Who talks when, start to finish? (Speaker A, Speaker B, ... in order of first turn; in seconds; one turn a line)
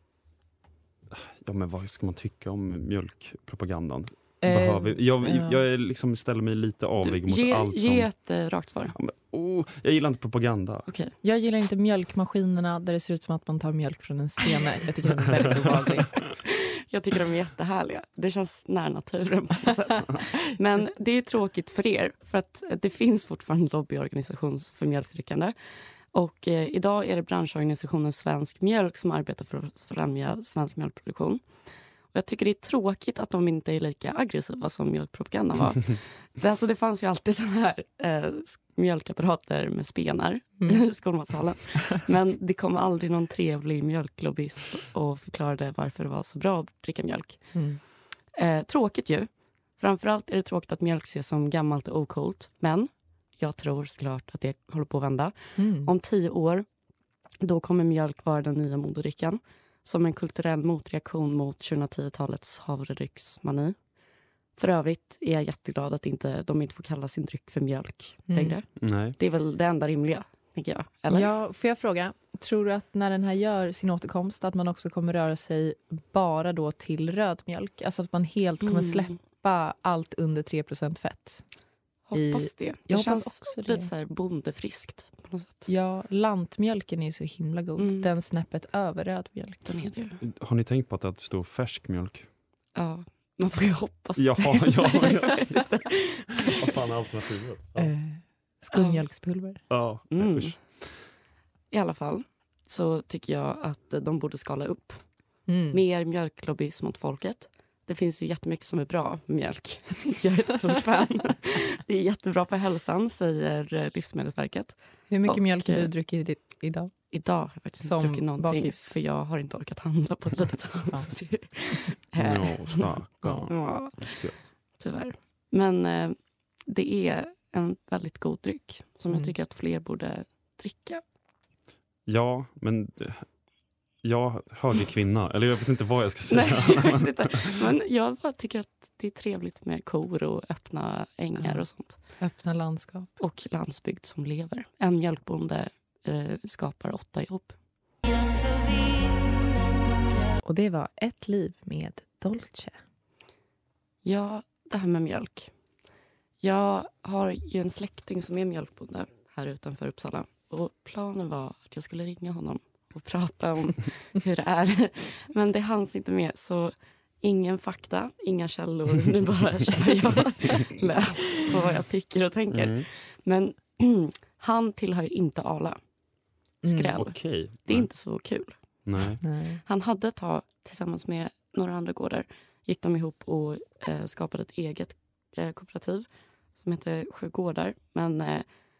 Speaker A: 1.1-8.1
Speaker B: 4.4-5.6
Speaker C: 7.0-8.9
Speaker A: 8.9-10.9
Speaker C: 10.9-11.1
Speaker B: 11.2-16.1
Speaker C: 16.1-47.5
Speaker B: 47.5-47.8
Speaker C: 48.3-56.7
Speaker B: 55.6-55.9
Speaker C: 57.4-63.8
Speaker C: 64.6-71.3
Speaker B: 68.3-68.6
Speaker A: 68.8-69.2
Speaker B: 71.1-81.5
Speaker C: 78.6-79.1
Speaker C: 82.1-85.7
Speaker B: 82.1-83.9
Speaker B: 85.7-89.8
Speaker C: 87.8-88.1
Speaker C: 89.7-90.2
Speaker A: 90.2-92.3
Speaker C: 92.8-96.5
Speaker A: 94.2-95.6
Speaker A: 96.5-97.9
Speaker B: 97.8-99.6
Speaker C: 98.7-99.0
Speaker A: 99.7-101.0
Speaker C: 100.1-100.8
Speaker C: 101.7-105.0
Speaker B: 105.5-105.8
Speaker C: 105.7-115.9
Speaker B: 115.1-116.9
Speaker C: 117.1-122.9
Speaker B: 117.8-119.0
Speaker A: 122.2-124.4
Speaker C: 123.5-131.0
Speaker A: 132.1-133.3
Speaker A: 134.0-137.5
Speaker C: 136.3-142.2
Speaker B: 141.4-143.1
Speaker C: 143.2-150.4
Speaker B: 150.4-152.8
Speaker C: 154.0-155.5
Speaker C: 156.4-175.8
Speaker A: 172.5-172.9
Speaker B: 176.6-177.0
Speaker C: 176.7-178.9
Speaker A: 177.0-177.9
Speaker A: 178.8-179.2
Speaker B: 179.2-179.6
Speaker C: 179.7-188.5